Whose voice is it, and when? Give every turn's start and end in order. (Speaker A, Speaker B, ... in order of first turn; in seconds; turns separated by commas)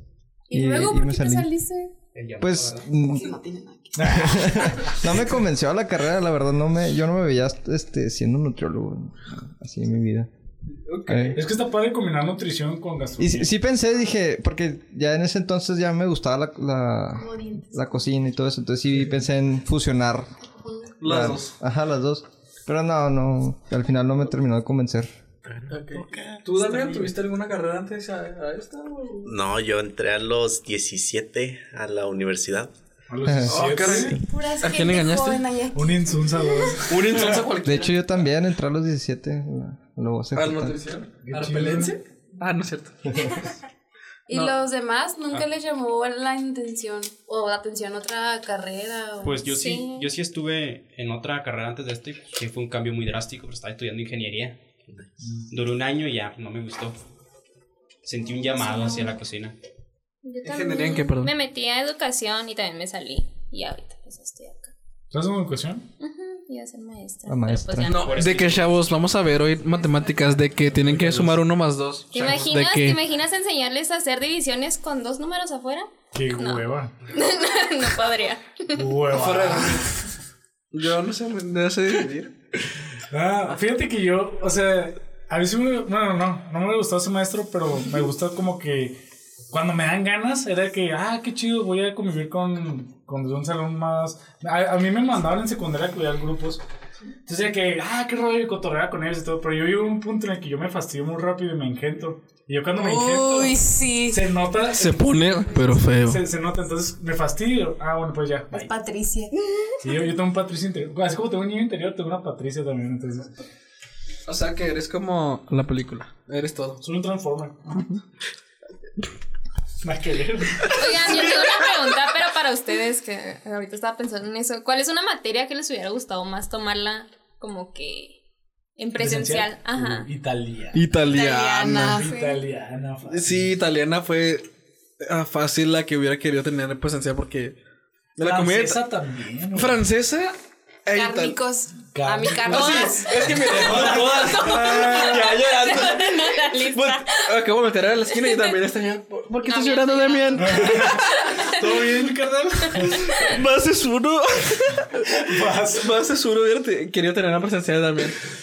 Speaker A: 0.5-1.5, Speaker B: 0.5-1.9, Speaker C: 2.1-2.9, Speaker A: 2.4-3.4, Speaker B: 3.0-4.9, Speaker D: 4.0-4.9, Speaker A: 4.0-10.3, Speaker E: 10.9-11.4, Speaker A: 11.1-11.4, Speaker D: 11.3-13.5, Speaker A: 13.2-20.4, Speaker B: 17.2-18.1, Speaker E: 21.0-21.5, Speaker A: 21.0-25.1, Speaker F: 25.5-26.4, Speaker E: 25.7-29.4, Speaker D: 26.7-27.0, Speaker F: 29.2-32.7, Speaker D: 33.1-34.2, Speaker A: 33.2-33.5, Speaker E: 33.5-35.4, Speaker B: 34.2-36.8, Speaker D: 35.8-37.4, Speaker E: 36.9-38.0, Speaker A: 37.6-40.8, Speaker E: 40.4-43.5, Speaker D: 41.2-42.0, Speaker B: 44.3-49.7, Speaker C: 49.2-54.6, Speaker G: 49.5-50.1, Speaker D: 55.2-55.5, Speaker C: 55.5-57.0, Speaker C: 58.0-59.6, Speaker G: 60.2-64.7, Speaker E: 60.4-61.3, Speaker D: 65.1-65.8, Speaker G: 66.0-68.0, Speaker A: 67.3-68.3, Speaker E: 67.8-73.0, Speaker C: 67.9-68.8, Speaker D: 70.8-71.4, Speaker G: 72.1-79.0, Speaker D: 76.1-76.9, Speaker D: 78.8-80.0, Speaker E: 79.1-80.0, Speaker E: 80.7-82.3, Speaker D: 83.1-89.0, Speaker D: 89.5-96.6, Speaker D: 97.3-103.6, Speaker B: 102.8-104.3, Speaker D: 104.1-105.1, Speaker E: 104.8-106.2, Speaker D: 106.0-108.7, Speaker B: 108.5-109.3, Speaker D: 109.8-113.3, Speaker E: 114.3-116.8, Speaker D: 116.8-117.8, Speaker D: 119.8-121.1, Speaker E: 120.8-121.4, Speaker G: 120.8-128.2, Speaker G: 128.8-130.1, Speaker D: 129.0-130.9, Speaker E: 130.7-132.0, Speaker B: 131.1-132.1, Speaker D: 131.8-133.5, Speaker G: 132.0-132.4, Speaker E: 133.1-134.5, Speaker E: 135.0-137.6, Speaker E: 138.2-138.8, Speaker D: 138.2-139.8, Speaker E: 139.5-140.3, Speaker E: 140.9-141.4, Speaker B: 140.9-143.3, Speaker D: 141.8-145.4, Speaker E: 142.5-151.2, Speaker G: 142.7-143.0, Speaker G: 144.3-147.3, Speaker B: 149.4-150.8, Speaker G: 150.3-150.6, Speaker D: 150.4-151.0, Speaker G: 151.2-151.7, Speaker D: 151.5-153.3, Speaker G: 152.8-153.2, Speaker E: 153.1-158.2, Speaker D: 155.2-155.9